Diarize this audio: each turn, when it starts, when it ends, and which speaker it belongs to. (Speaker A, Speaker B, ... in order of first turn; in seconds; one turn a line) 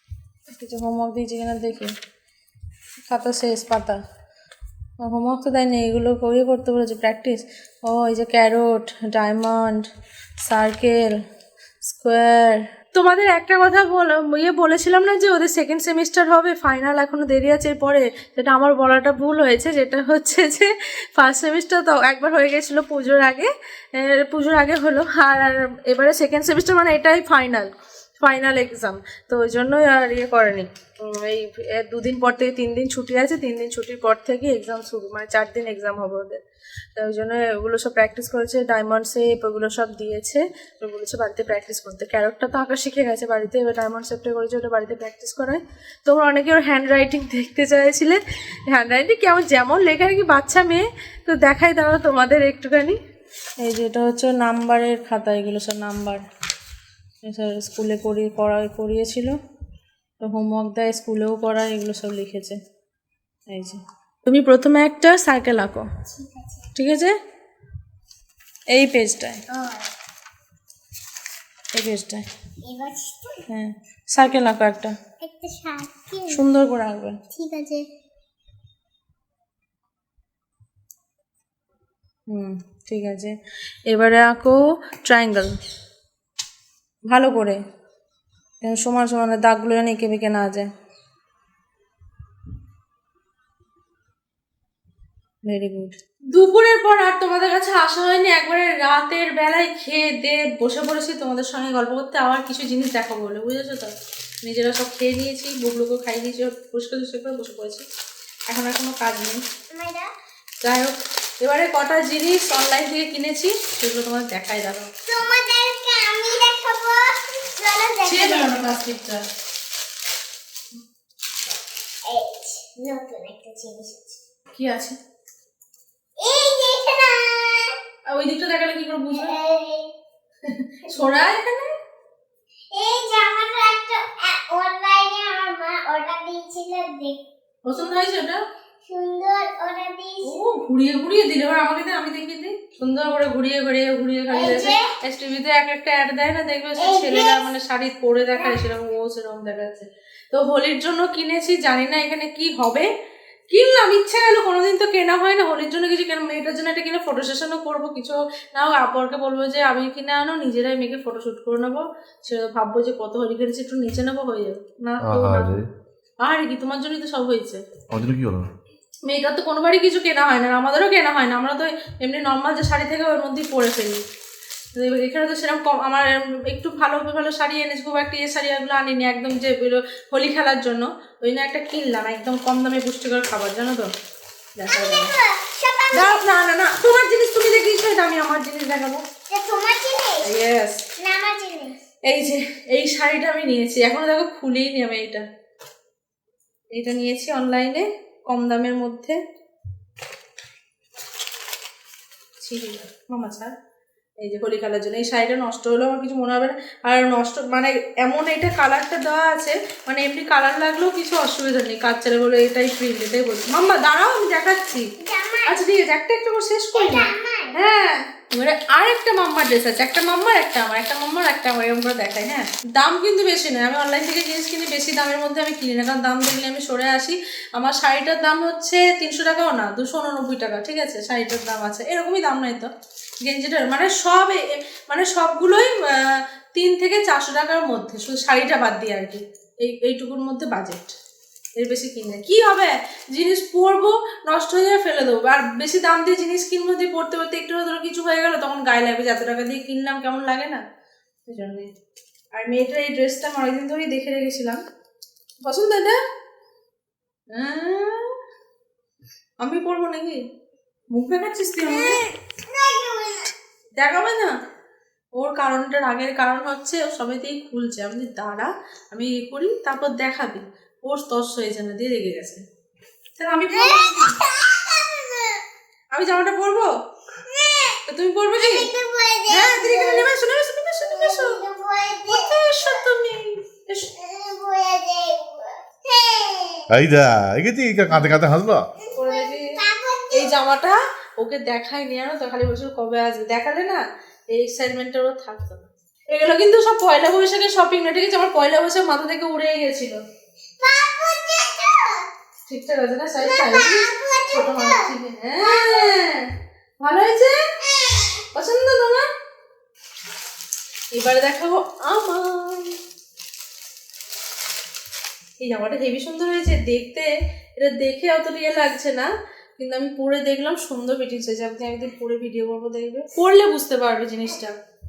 Speaker A: 0.5-1.9
Speaker A: 3.0-4.0
Speaker A: 5.0-9.8
Speaker A: 10.4-11.1
Speaker A: 11.8-36.4
Speaker A: 37.0-53.0
Speaker A: 53.6-56.2
Speaker A: 57.2-59.4
Speaker A: 60.2-62.6
Speaker A: 63.5-65.9
Speaker B: 66.0-66.7
Speaker A: 66.7-67.1
Speaker A: 68.7-69.4
Speaker B: 69.5-69.9
Speaker A: 71.7-72.2
Speaker B: 72.6-73.4
Speaker A: 73.5-75.0
Speaker B: 75.2-76.4
Speaker A: 76.3-77.2
Speaker B: 77.3-77.8
Speaker A: 82.3-83.3
Speaker A: 83.9-85.5
Speaker A: 87.1-87.6
Speaker A: 88.6-90.7
Speaker A: 95.4-107.8
Speaker A: 108.5-109.4
Speaker B: 109.7-110.1
Speaker A: 110.6-114.9
Speaker B: 115.0-118.6
Speaker A: 118.0-119.2
Speaker B: 122.0-124.2
Speaker A: 124.5-125.0
Speaker B: 126.2-127.7
Speaker A: 128.1-129.3
Speaker B: 129.1-129.9
Speaker A: 130.4-131.7
Speaker B: 132.7-137.2
Speaker A: 137.6-138.4
Speaker B: 138.8-140.4
Speaker A: 140.2-152.9
Speaker B: 144.3-144.9
Speaker B: 146.8-147.4
Speaker B: 148.4-148.6
Speaker A: 153.5-165.6
Speaker A: 166.2-167.6
Speaker C: 167.9-168.4
Speaker A: 169.0-174.0
Speaker A: 174.7-183.9
Speaker A: 184.6-185.1
Speaker B: 184.7-186.2
Speaker A: 185.9-189.0
Speaker B: 189.3-190.3
Speaker A: 190.2-190.8
Speaker B: 191.0-191.8
Speaker A: 192.1-195.2
Speaker A: 196.7-199.2
Speaker A: 202.4-203.5
Speaker A: 204.2-214.8
Speaker B: 215.0-215.6
Speaker A: 215.4-232.7
Speaker B: 216.7-217.5
Speaker A: 233.2-240.9
Speaker A: 241.6-250.6
Speaker A: 251.3-251.7
Speaker A: 252.3-254.6
Speaker A: 255.4-256.0
Speaker A: 257.3-258.1
Speaker A: 259.4-260.2
Speaker A: 260.9-262.0
Speaker B: 261.6-263.3
Speaker A: 263.8-264.3
Speaker A: 265.2-272.4
Speaker A: 273.2-274.1
Speaker B: 273.5-275.4
Speaker A: 275.9-276.7
Speaker B: 277.3-277.8
Speaker A: 277.9-278.7
Speaker B: 278.4-280.2
Speaker A: 279.3-281.4
Speaker B: 280.8-282.8
Speaker A: 282.1-283.9
Speaker B: 283.9-286.7
Speaker C: 286.7-288.6
Speaker A: 287.9-288.2
Speaker B: 288.8-290.3
Speaker A: 288.9-289.5
Speaker A: 290.1-300.0
Speaker B: 300.6-302.1
Speaker A: 302.5-306.3
Speaker B: 303.2-306.0
Speaker A: 306.8-307.4
Speaker B: 307.6-308.2
Speaker A: 308.3-309.1
Speaker A: 310.9-312.8
Speaker A: 315.4-324.5